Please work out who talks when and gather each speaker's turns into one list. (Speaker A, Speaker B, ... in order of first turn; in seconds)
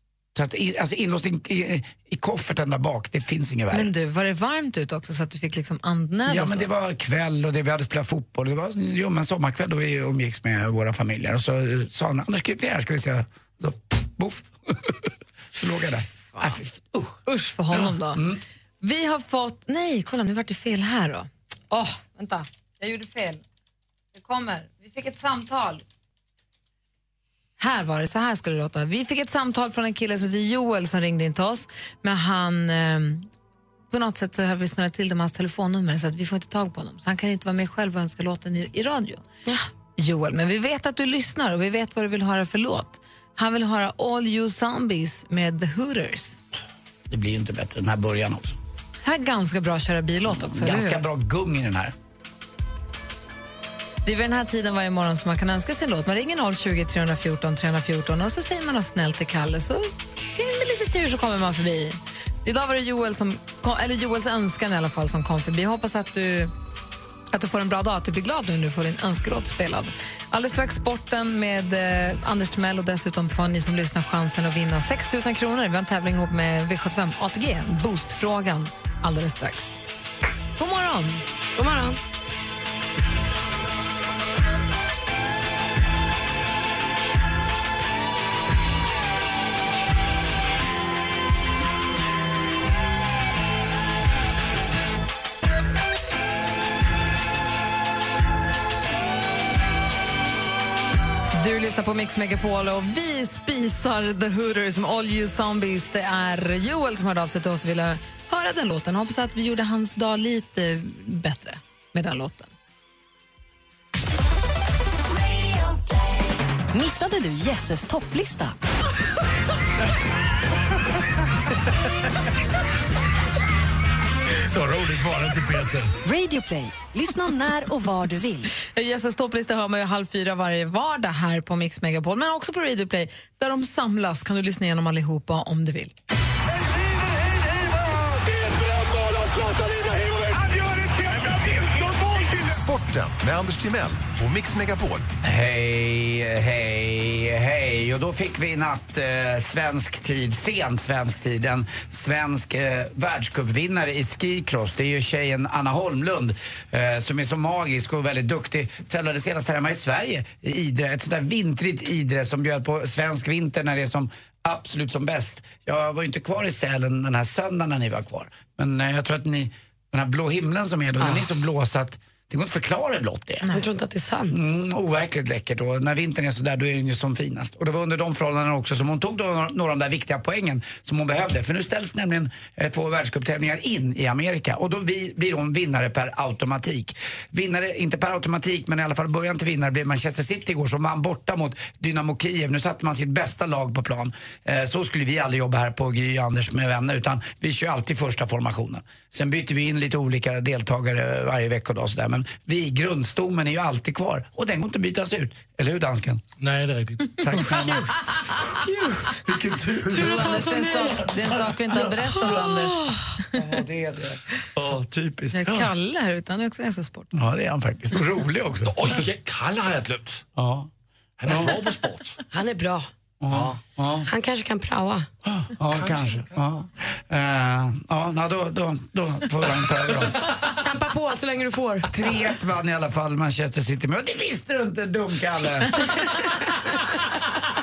Speaker A: 0.3-3.9, 6.3-18.4, 47.1-48.6, 50.4-52.0, 145.2-173.5, 174.3-206.2, 207.2-207.9, 213.3-215.6, 217.1-219.0, 220.4-220.7, 221.3-221.6, 223.2-224.1, 225.2-230.2, 231.9-235.9
Speaker B: 3.7-6.7, 16.2-16.6, 17.2-18.2, 18.8-23.4, 24.1-25.8, 27.6-33.3, 33.9-39.2, 40.0-46.4, 49.0-51.0, 54.0-66.5, 67.3-79.8, 80.6-81.2, 101.3-112.5, 128.6-135.9, 209.9-212.8, 215.3-217.1
Speaker C: 81.5-82.0, 171.0-171.3, 173.5-174.4, 207.5-209.2, 209.8-211.1, 211.8-213.0, 222.3-222.9, 224.1-225.1, 230.4-231.9
Speaker D: 116.7-118.6, 126.0-128.5
Speaker E: 124.5-125.9, 206.4-207.2, 218.7-220.2, 221.2-222.2, 223.3-223.6, 225.8-226.1
Speaker F: 141.3-145.1